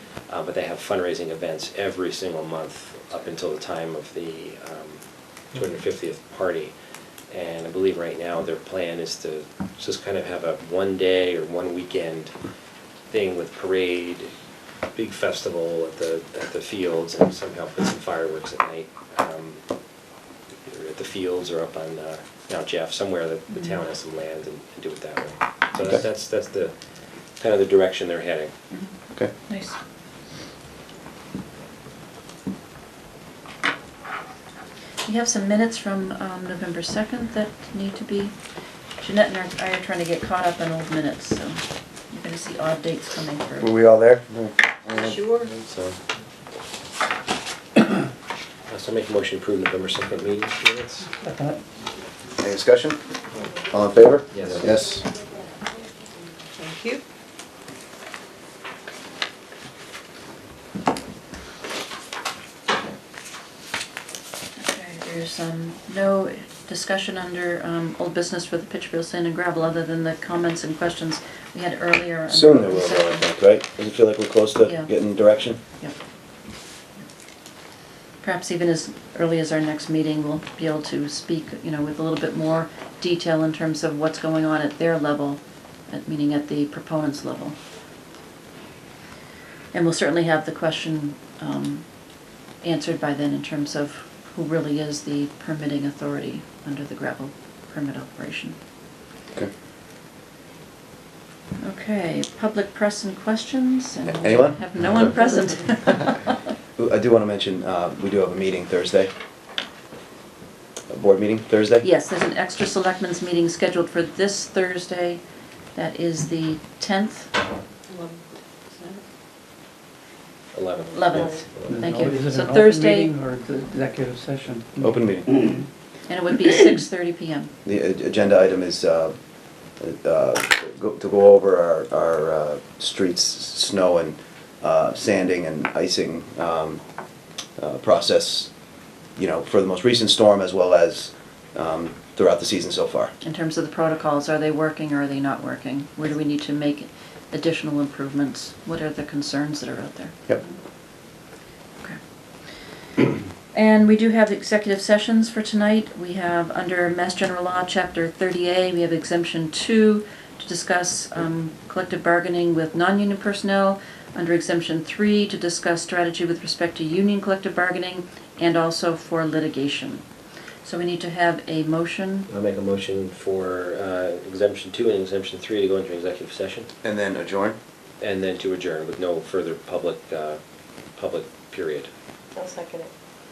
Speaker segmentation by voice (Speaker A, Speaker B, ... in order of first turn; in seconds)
Speaker A: 0.3-5.0, 5.5-6.7, 7.3-12.3, 13.1-14.3, 14.9-19.6, 20.6-26.7, 27.4-28.5, 48.7-51.1, 54.3-54.7, 120.5-122.0, 172.3-176.7, 178.0-180.4, 180.9-181.9
Speaker B: 29.5-29.8, 35.0-38.3, 39.0-43.7, 45.1-45.4, 64.6-73.2, 74.6-74.9, 78.2-87.5, 89.7-91.8, 92.6-98.5, 101.6-106.4, 111.8-115.2, 115.7-117.3, 120.9-123.1, 126.1-127.5, 143.2-150.6, 153.5-170.0, 170.6-172.3
Speaker C: 43.6-46.0, 52.4-53.0, 53.7-55.0, 72.3-75.6, 104.1-105.0, 106.8-109.1, 110.9-111.9, 124.8-125.5, 127.6-129.1, 129.8-136.8, 137.6-138.5, 139.2-143.1, 176.8-177.6
Speaker D: 45.0-45.2, 117.9-118.2, 118.7-119.0, 121.1-121.4, 182.3-182.9
Speaker E: 51.3-51.5, 121.6-125.6